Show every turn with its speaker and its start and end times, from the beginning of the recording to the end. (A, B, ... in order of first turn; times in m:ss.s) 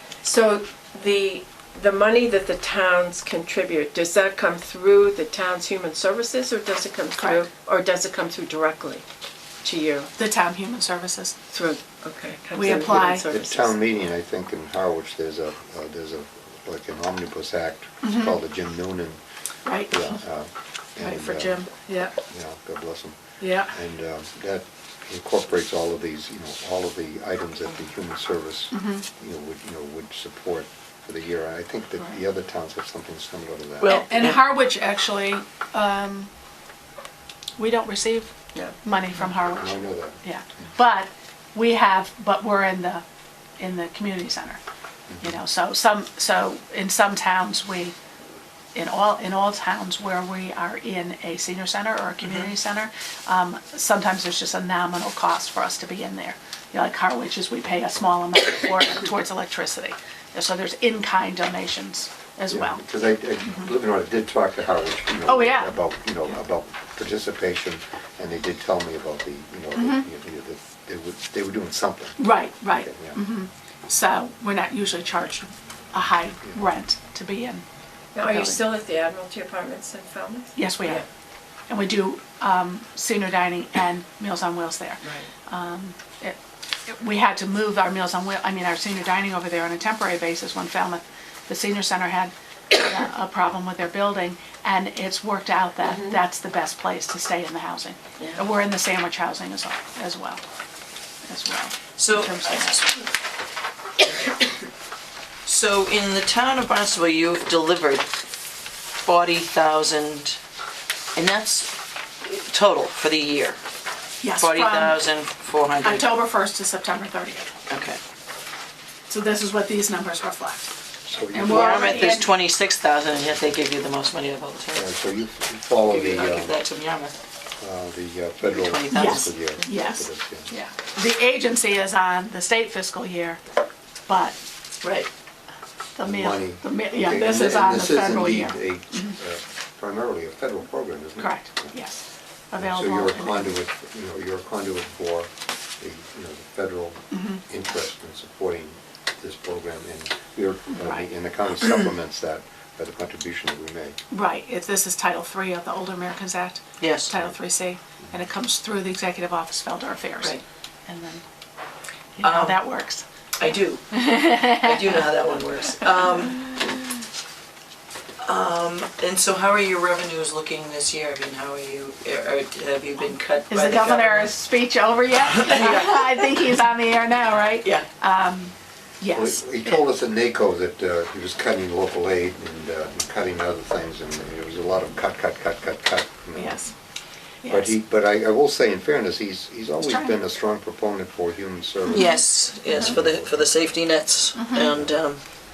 0:00.2-0:09.0 A
0:09.6-0:10.1 A
0:10.2-0:11.4 B
0:11.5-0:13.8 A
0:12.5-0:13.2 B
0:12.7-0:19.2 C
0:18.0-0:18.4 B
0:19.6-0:20.2 B
0:19.9-0:21.6 C
0:21.0-0:22.1 B
0:22.2-0:34.0 C
0:23.4-0:23.7 B
0:28.7-0:29.0 B
0:33.8-0:34.4 D
0:33.8-0:36.3 B
0:37.6-0:43.0 B
0:39.4-0:40.7 C
0:43.6-0:44.6 B
0:45.1-0:45.4 C
0:45.2-0:47.9 B
0:48.7-1:02.8 B
0:52.2-0:52.5 D
1:02.5-1:13.2 C
1:05.2-1:05.7 B
1:09.8-1:10.0 B
1:12.2-1:17.6 B
1:18.1-1:20.5 A
1:18.2-1:18.6 B
1:20.5-1:21.0 B
1:21.7-1:40.4 B
1:41.2-1:42.9 B
1:42.0-1:43.0 D
1:45.4-1:48.1 D
1:49.0-1:50.4 D
1:51.2-1:51.7 D
1:52.2-1:53.6 D
1:54.2-1:55.0 B
1:54.4-1:56.0 D
1:55.8-1:57.5 B
1:57.7-1:58.0 D
1:59.1-2:00.7 B
2:01.1-2:01.9 C
2:01.3-2:02.3 B
2:01.4-2:04.9 D
2:04.7-2:06.5 C
2:05.8-2:07.1 D
2:07.6-2:10.5 C
2:08.4-2:09.6 D
2:08.9-2:13.4 B
2:14.1-2:14.4 B
2:14.8-2:15.1 D
2:16.0-2:19.1 B
2:16.0-2:21.7 C
2:21.2-2:23.4 B
2:22.5-2:34.0 C
2:27.1-2:27.4 B
2:30.7-2:31.0 B
2:34.1-2:41.2 B
2:36.8-2:37.1 D
2:42.2-2:43.0 B
2:42.2-2:42.6 D
2:43.4-2:46.6 D
2:43.9-2:45.0 B
2:45.7-2:46.4 B
2:48.2-2:54.3 D
2:53.5-2:59.8 B
2:55.3-2:56.2 D
2:57.6-2:57.9 D
2:59.1-3:06.6 C
3:06.3-3:06.7 B
3:07.4-3:07.8 B
3:07.4-3:13.6 C
3:09.8-3:10.2 B
3:11.8-3:15.2 D
3:14.3-3:14.7 B
3:14.6-3:15.0 C